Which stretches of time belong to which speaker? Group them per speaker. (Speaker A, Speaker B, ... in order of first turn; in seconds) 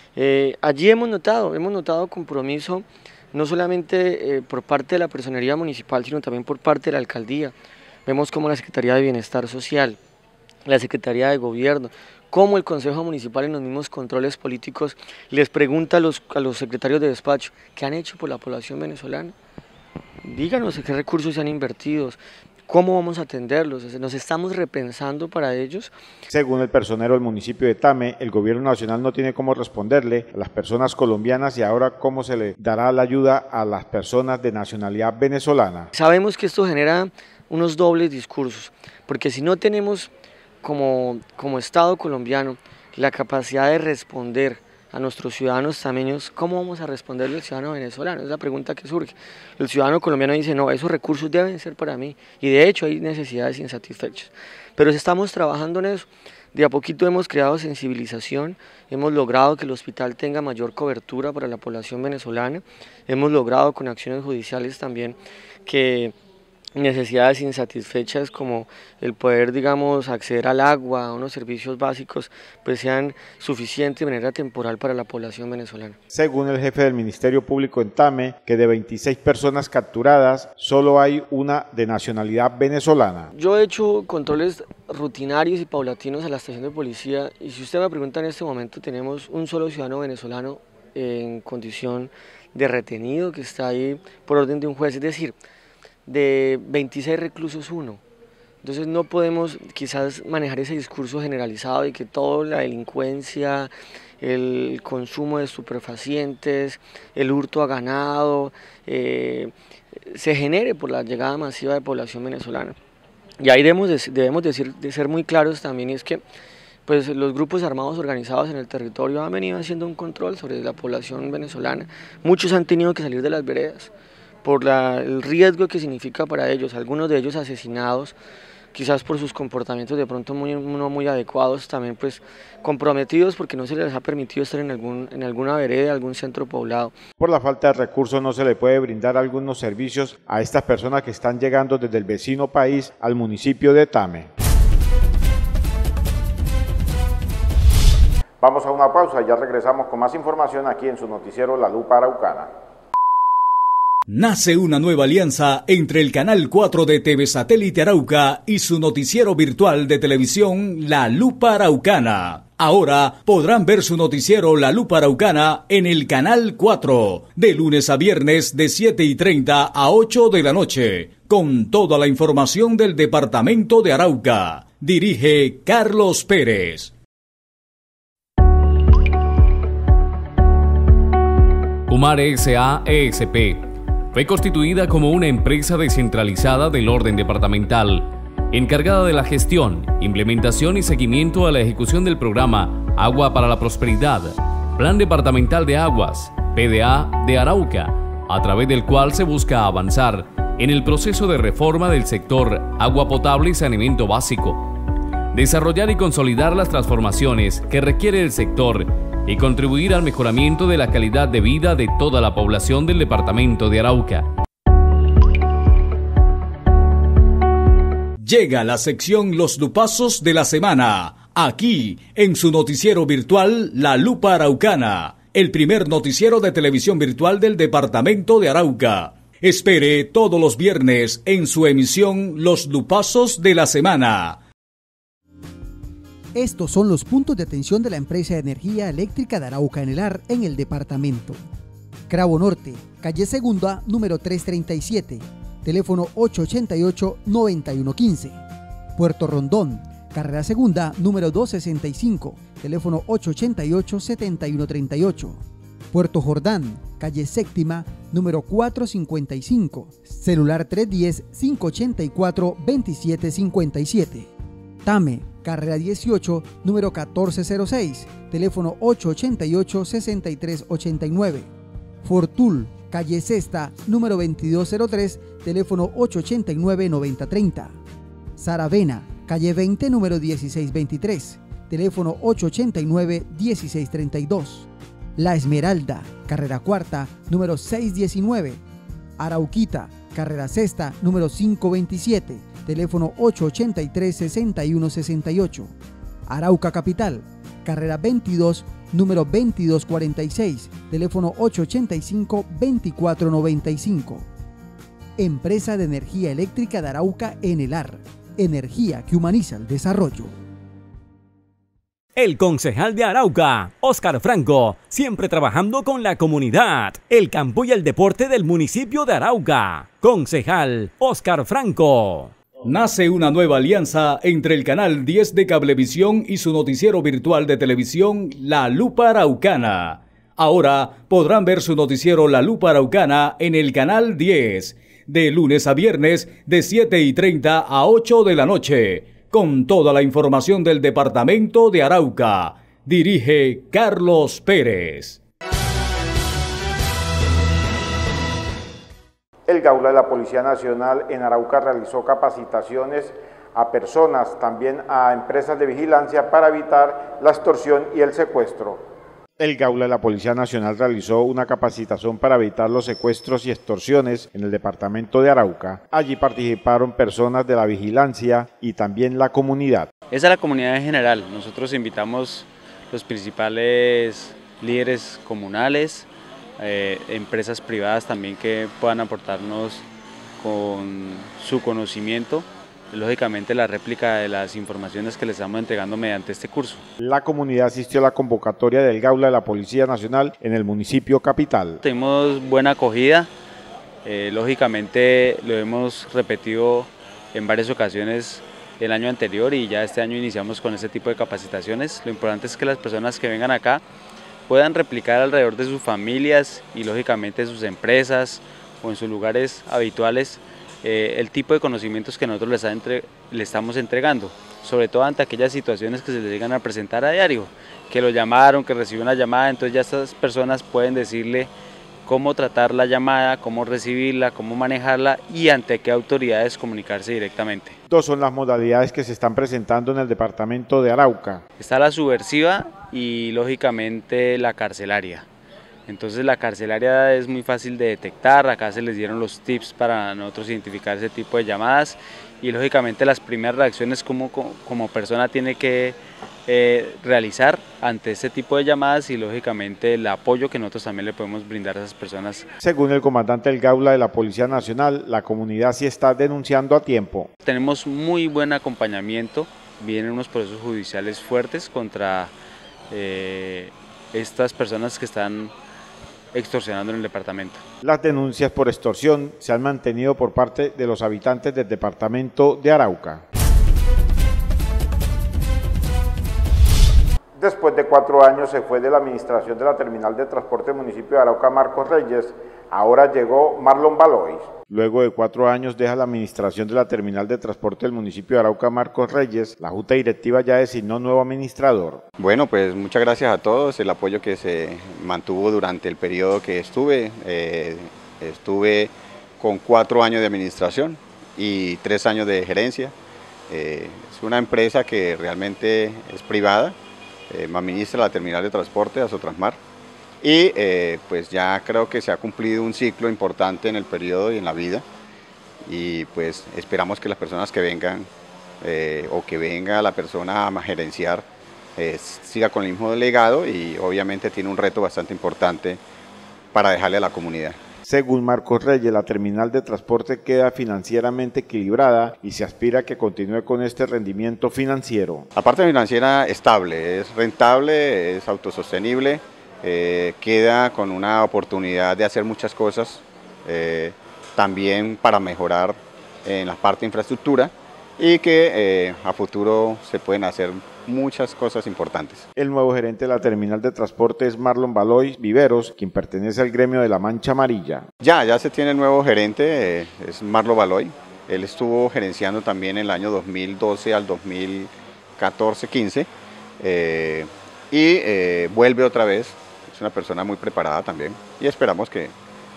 Speaker A: 0.2-7.5, 8.1-10.0, 10.7-19.4, 20.2-25.9, 35.9-40.1, 40.6-66.1, 66.8-76.0, 83.3-95.3, 96.1-98.0, 98.6-109.5, 110.1-112.8, 113.4-116.2, 116.9-123.9, 124.4-128.2, 128.7-136.9
Speaker B: 26.3-35.9, 76.1-83.3, 137.2-144.3, 148.4-152.5, 349.5-358.8, 359.4-369.9, 387.0-391.8, 427.9-431.4, 452.6-457.3, 467.8-473.2, 477.4-492.0, 527.8-535.3, 552.4-557.9
Speaker C: 154.1-176.9, 218.2-234.4, 322.6-345.2
Speaker D: 181.9-204.7, 205.3-214.3
Speaker E: 236.3-241.4, 242.1-248.4, 249.0-255.4, 255.9-264.3, 264.9-271.5, 272.0-277.8, 278.4-288.6, 289.2-295.7, 296.3-304.2, 305.2-310.3
Speaker F: 312.2-322.3
Speaker G: 370.1-376.1, 376.6-386.9, 391.8-393.3, 394.1-403.8, 404.5-421.5, 422.1-427.8, 431.6-435.3, 435.9-452.5, 457.4-462.3, 462.9-465.5, 466.3-467.6
Speaker H: 492.2-502.9, 503.5-506.8, 507.3-509.6, 510.2-514.8, 515.6-518.1, 518.6-521.3, 521.8-525.8, 526.5-527.6, 535.4-552.3, 558.0-566.1, 566.6-572.1